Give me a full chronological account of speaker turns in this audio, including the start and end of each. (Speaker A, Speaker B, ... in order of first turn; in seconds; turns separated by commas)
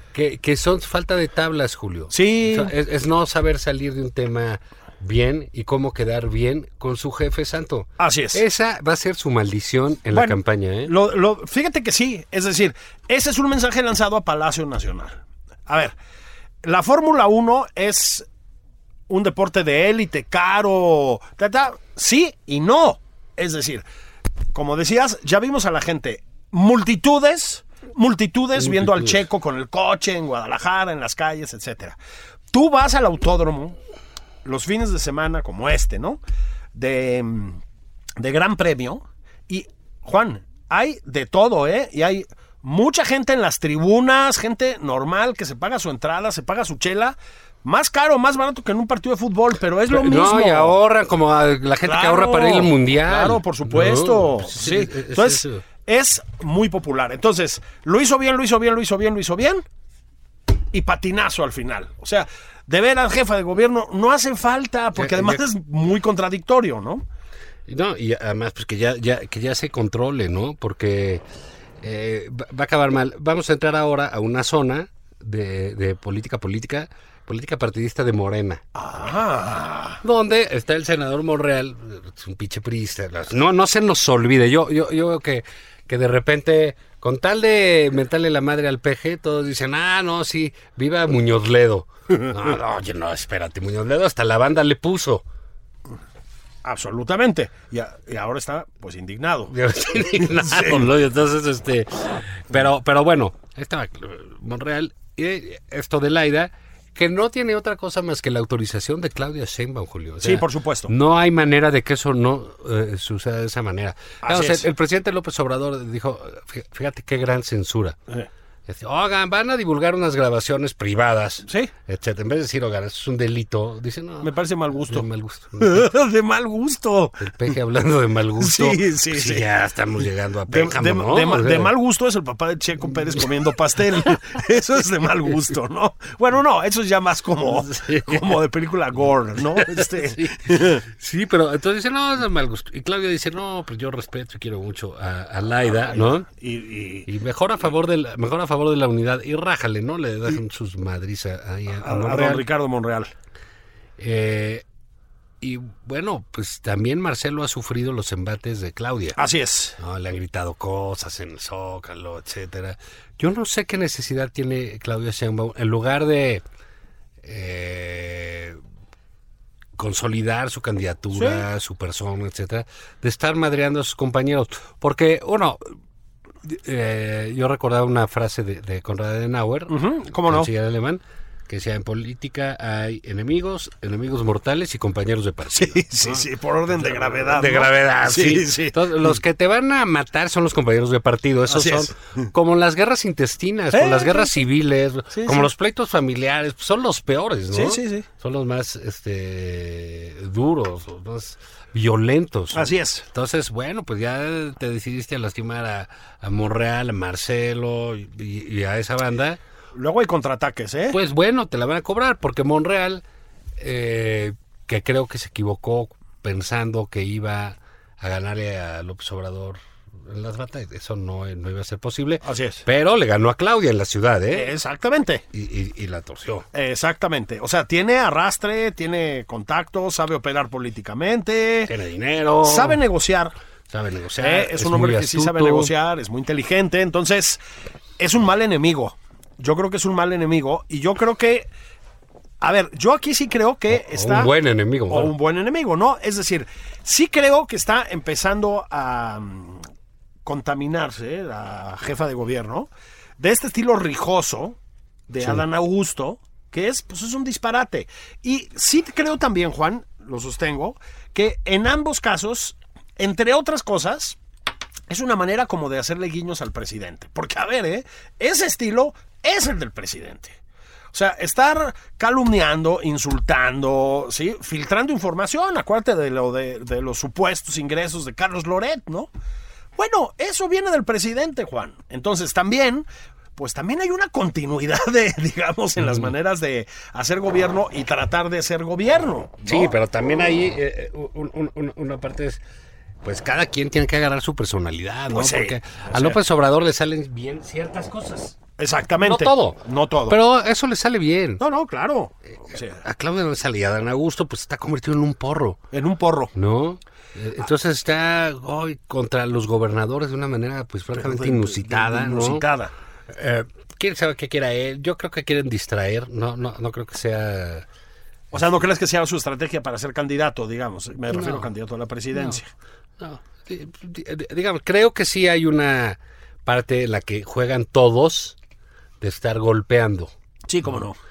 Speaker A: 0.1-10.9, Speaker B: 2.1-2.7, Speaker B: 8.0-8.4, Speaker B: 10.1-15.9, Speaker B: 16.6-18.2, Speaker B: 19.1-23.8, Speaker B: 24.5-32.0, Speaker A: 28.6-29.2, Speaker B: 32.5-33.8, Speaker B: 34.5-36.2, Speaker B: 36.7-37.6, Speaker B: 38.2-50.8, Speaker A: 49.9-55.6, Speaker B: 51.9-59.6, Speaker B: 60.7-67.0, Speaker A: 65.0-65.4, Speaker A: 67.7-71.2, Speaker A: 71.8-78.6, Speaker B: 78.8-80.0, Speaker A: 80.0-95.2, Speaker B: 96.6-100.9, Speaker A: 99.5-118.0, Speaker B: 110.2-110.9, Speaker B: 114.2-114.7, Speaker A: 118.7-124.3, Speaker B: 124.2-125.1, Speaker A: 124.9-125.9, Speaker B: 125.6-127.3, Speaker A: 127.2-131.7, Speaker B: 128.4-129.4, Speaker B: 130.5-140.8, Speaker A: 137.5-138.3, Speaker A: 139.5-146.3, Speaker B: 145.7-147.1, Speaker A: 147.1-152.4, Speaker B: 151.8-153.1, Speaker A: 154.0-154.6, Speaker A: 155.4-159.2, Speaker B: 159.2-159.8, Speaker A: 159.8-166.4, Speaker A: 167.2-168.6, Speaker A: 169.8-175.6, Speaker B: 171.1-171.4, Speaker A: 176.4-209.4, Speaker B: 179.7-180.5, Speaker B: 185.5-189.2, Speaker B: 191.5-192.3, Speaker B: 193.7-194.3, Speaker B: 195.1-195.5, Speaker B: 197.5-198.1, Speaker B: 202.5-203.1, Speaker B: 209.8-211.0, Speaker A: 210.9-213.0, Speaker A: 213.6-224.5, Speaker B: 222.2-222.7, Speaker B: 224.3-225.2, Speaker A: 225.3-226.5, Speaker B: 226.5-231.7, Speaker A: 231.7-232.8, Speaker B: 232.4-233.3, Speaker A: 233.7-235.7, Speaker B: 234.2-237.4, Speaker B: 238.0-241.5, Speaker B: 242.4-244.3, Speaker A: 243.7-245.1, Speaker B: 244.9-249.6, Speaker B: 250.2-254.6, Speaker B: 255.1-264.2, Speaker A: 255.2-255.4, Speaker B: 264.9-270.4, Speaker B: 270.9-279.1, Speaker B: 279.8-282.9, Speaker B: 283.4-289.7, Speaker A: 285.8-286.1, Speaker A: 289.5-292.4, Speaker A: 293.0-298.4, Speaker B: 295.1-296.2, Speaker B: 298.6-300.2, Speaker A: 299.0-301.4, Speaker B: 301.4-302.8, Speaker A: 302.8-305.6, Speaker B: 305.7-306.3, Speaker A: 306.4-312.4, Speaker B: 310.9-312.7, Speaker A: 313.1-317.7, Speaker B: 318.3-322.5, Speaker A: 321.1-321.5, Speaker A: 322.1-322.4, Speaker A: 323.0-328.4, Speaker A: 329.0-330.1, Speaker B: 330.5-331.0